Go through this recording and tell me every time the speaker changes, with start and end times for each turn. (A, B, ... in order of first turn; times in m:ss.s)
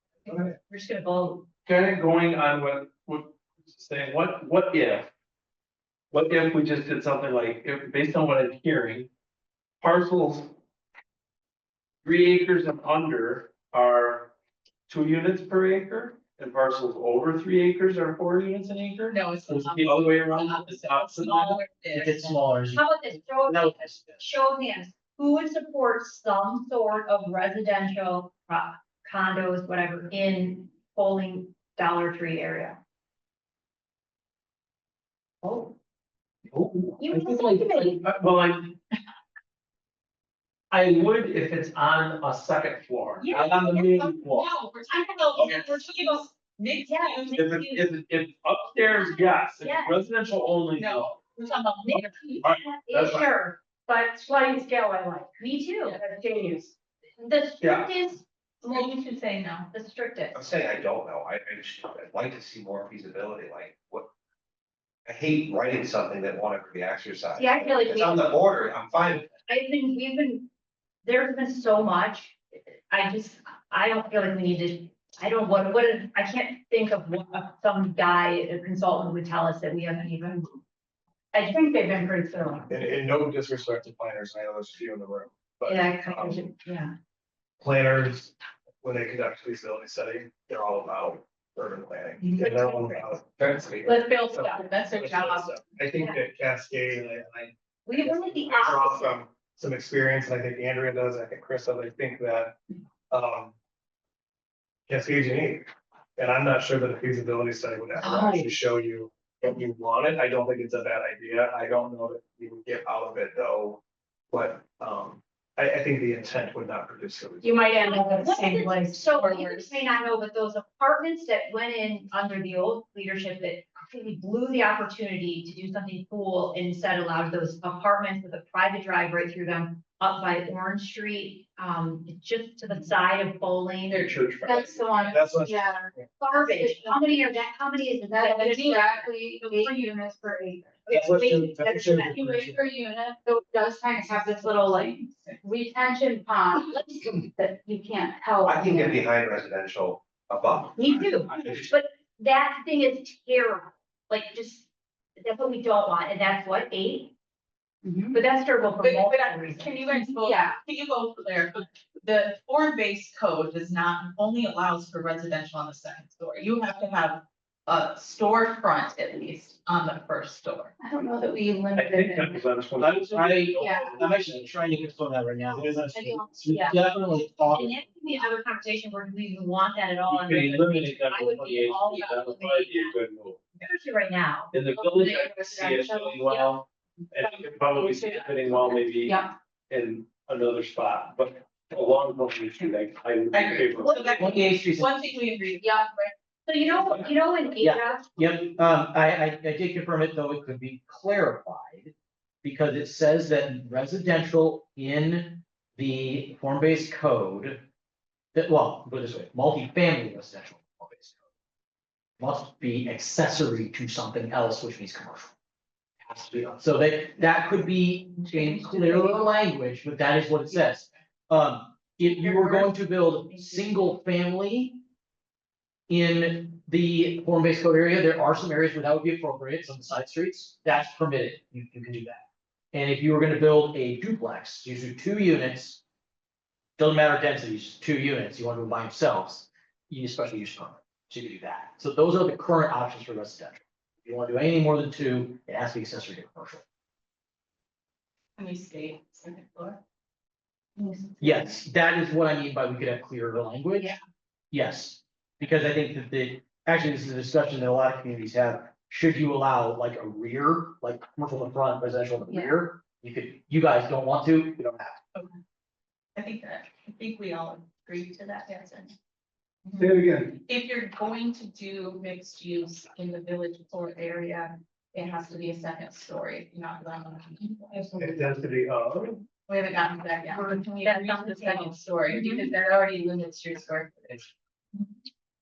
0:00.3-0:01.5 A
0:01.6-0:05.1 B
0:06.1-0:09.1 B
0:09.8-0:10.5 B
0:12.0-0:14.3 B
0:14.9-0:21.6 B
0:19.1-0:22.4 C
0:21.9-0:24.3 D
0:22.7-0:32.8 A
0:35.4-0:35.7 A
0:36.5-0:38.8 B
0:37.0-0:38.0 A
0:40.7-0:44.5 B
0:43.2-0:43.9 A
0:43.4-0:47.5 C
0:45.4-0:45.7 B
0:46.8-0:47.9 A
0:47.3-0:51.2 B
0:48.9-0:50.0 A
0:50.8-0:52.5 C
0:51.8-0:58.9 A
0:52.4-0:53.2 B
0:57.6-0:57.9 B
0:58.6-0:59.7 C
0:59.7-1:00.4 A
1:00.3-1:04.1 E
1:05.0-1:09.3 E
1:07.4-1:08.4 A
1:09.5-1:10.5 A
1:11.0-1:12.4 A
1:12.9-1:20.6 A
1:21.3-1:22.7 A
1:22.7-1:26.4 F
1:25.6-1:26.9 A
1:27.6-1:42.6 F
1:32.2-1:33.1 A
1:33.4-1:33.9 E
1:33.8-1:35.5 C
1:37.9-1:39.2 A
1:43.1-1:43.5 F
1:44.9-1:57.6 F
1:48.0-1:48.5 A
1:57.4-1:59.0 G
1:57.8-2:14.2 A
1:59.1-1:59.8 C
2:13.9-2:14.8 B
2:14.4-2:17.4 G
2:15.1-2:16.0 F
2:16.2-2:20.0 A
2:18.1-2:20.8 G
2:20.8-2:22.2 A
2:20.9-2:22.6 F
2:22.0-2:29.1 G
2:24.1-2:24.9 A
2:24.5-2:25.5 C
2:26.7-2:27.0 A
2:28.4-2:31.7 E
2:30.8-2:34.7 A
2:35.2-2:37.1 A
2:37.8-2:38.2 G
2:38.1-2:40.1 A
2:38.8-2:50.8 C
2:39.9-2:40.6 G
2:50.8-2:52.4 G
2:51.7-2:54.5 B
2:52.8-2:57.8 D
2:53.4-2:54.1 G
2:55.9-2:56.6 G
2:56.5-2:56.8 A
2:57.4-3:03.0 A
3:00.0-3:03.4 B
3:01.9-3:02.2 G
3:03.6-3:04.5 A
3:04.5-3:14.3 B
3:04.7-3:06.6 G
3:07.2-3:09.3 G
3:13.3-3:15.8 C
3:13.8-3:14.2 G
3:14.1-3:14.9 D
3:15.6-3:16.1 G
3:16.5-3:18.1 A
3:17.6-3:27.6 D
3:28.3-3:31.2 D
3:32.2-3:35.3 D
3:36.0-3:44.8 D
3:45.9-3:55.8 D
3:56.8-4:06.6 D
4:08.4-4:09.8 C
4:10.8-4:11.1 C
4:11.2-4:14.0 D
4:14.5-4:25.0 D
4:26.2-4:29.0 C
4:29.6-4:37.9 C
4:29.8-4:30.2 B
4:38.0-4:39.2 F
4:39.4-4:44.2 C
4:40.3-4:42.4 A